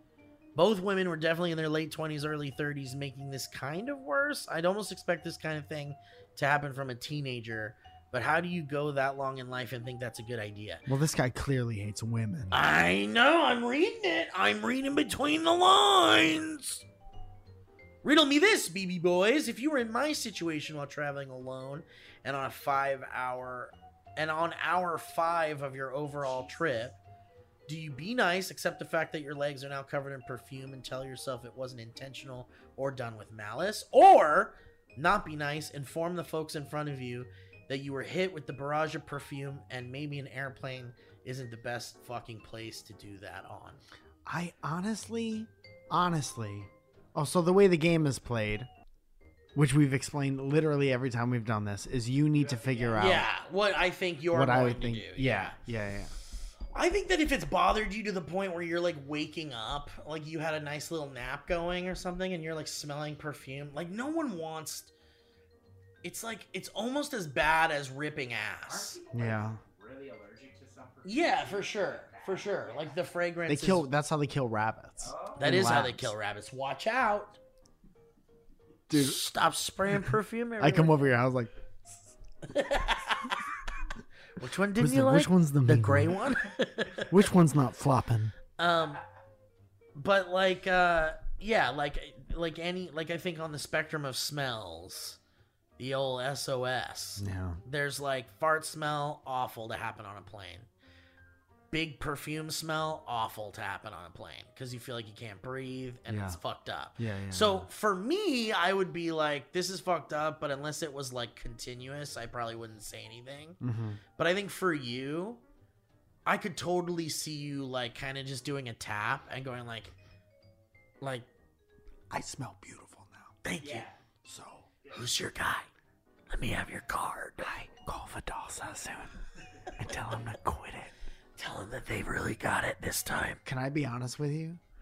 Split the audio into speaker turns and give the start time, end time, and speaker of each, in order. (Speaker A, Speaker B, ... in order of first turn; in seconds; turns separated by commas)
Speaker A: 0.6-10.8, Speaker B: 10.9-12.6, Speaker A: 12.5-16.9, Speaker A: 18.0-27.0, Speaker C: 26.2-26.9, Speaker A: 27.7-43.8, Speaker B: 44.3-48.7, Speaker B: 49.5-53.3, Speaker C: 52.4-52.9, Speaker A: 52.9-55.6, Speaker B: 54.3-56.1, Speaker A: 56.7-64.9, Speaker A: 66.0-69.0, Speaker C: 68.6-73.0, Speaker B: 69.1-69.6, Speaker A: 71.0-73.9, Speaker B: 73.5-76.2, Speaker C: 75.0-75.5, Speaker A: 75.4-77.4, Speaker B: 78.9-79.2, Speaker A: 78.9-81.1, Speaker B: 80.6-81.5, Speaker A: 82.4-83.4, Speaker A: 84.4-87.2, Speaker B: 84.8-86.2, Speaker B: 87.1-88.3, Speaker A: 88.6-89.0, Speaker A: 90.0-95.2, Speaker A: 95.8-100.7, Speaker B: 97.2-97.6, Speaker A: 101.7-113.6, Speaker B: 106.1-106.4, Speaker B: 107.0-107.7, Speaker B: 113.6-114.0, Speaker A: 114.2-115.4, Speaker A: 116.3-119.9, Speaker A: 121.0-121.3, Speaker B: 122.1-123.4, Speaker A: 123.4-123.9, Speaker C: 123.6-124.0, Speaker B: 124.2-124.7, Speaker A: 124.9-125.7, Speaker A: 126.3-127.6, Speaker B: 127.4-129.2, Speaker B: 129.8-130.9, Speaker A: 131.4-133.4, Speaker B: 133.4-134.6